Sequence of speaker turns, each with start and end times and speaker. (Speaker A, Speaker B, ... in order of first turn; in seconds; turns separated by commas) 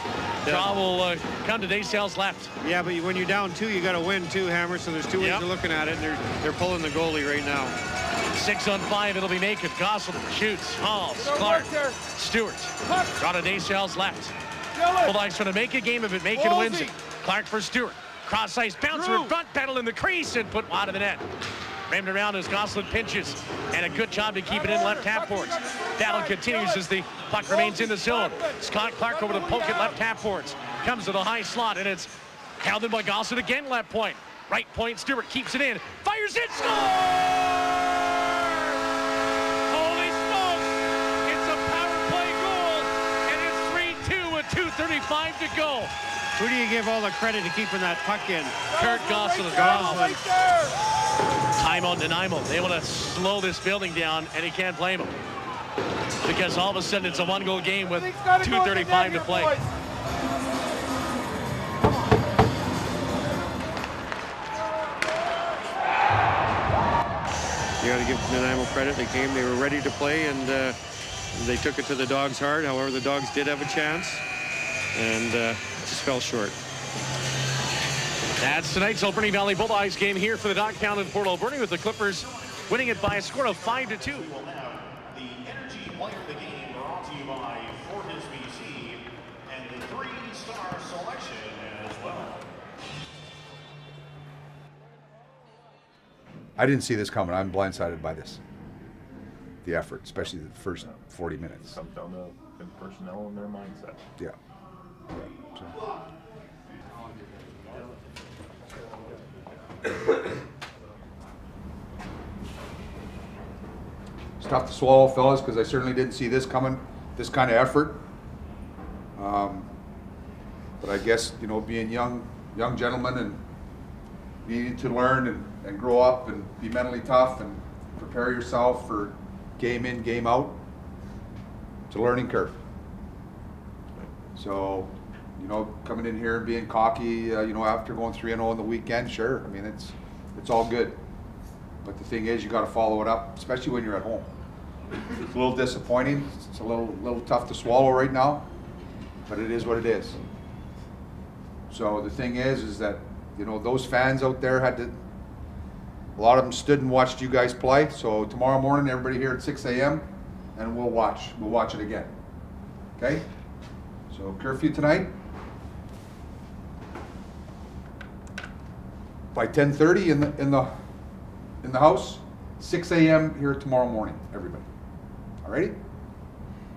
Speaker A: 0.4-0.7, Speaker B: 0.4-2.5, Speaker A: 2.6-7.7, Speaker B: 5.2-5.5, Speaker B: 8.3-14.3, Speaker C: 11.2-12.0, Speaker C: 14.7-15.2, Speaker B: 15.0-21.2, Speaker C: 16.3-16.9, Speaker C: 18.9-19.3, Speaker B: 21.9-38.8, Speaker C: 24.5-26.8, Speaker C: 27.5-28.6, Speaker C: 29.2-29.9, Speaker B: 39.7-45.9, Speaker A: 46.4-48.7, Speaker B: 48.7-50.2, Speaker C: 48.8-50.7, Speaker A: 49.5-50.2, Speaker B: 51.5-55.1, Speaker B: 56.2-59.6, Speaker C: 58.0-59.7, Speaker A: 67.8-70.8, Speaker A: 71.3-74.2, Speaker A: 74.9-76.5, Speaker B: 78.4-84.4, Speaker D: 84.4-88.9, Speaker B: 88.1-88.6, Speaker B: 89.5-92.3, Speaker D: 89.6-91.2, Speaker C: 96.6-98.4, Speaker C: 99.6-101.8, Speaker E: 100.7-104.0, Speaker C: 105.1-105.8, Speaker C: 114.4-118.0, Speaker C: 119.2-119.7, Speaker C: 120.8-123.4, Speaker C: 124.4-130.6, Speaker C: 131.9-132.6, Speaker C: 134.3-141.0, Speaker C: 141.8-144.3, Speaker C: 145.2-148.5, Speaker C: 149.3-150.2, Speaker C: 151.7-155.0, Speaker C: 156.2-160.0, Speaker C: 160.5-162.1, Speaker C: 163.0-163.2, Speaker C: 164.1-165.1, Speaker C: 169.3-170.7, Speaker C: 171.6-174.7, Speaker C: 175.4-175.8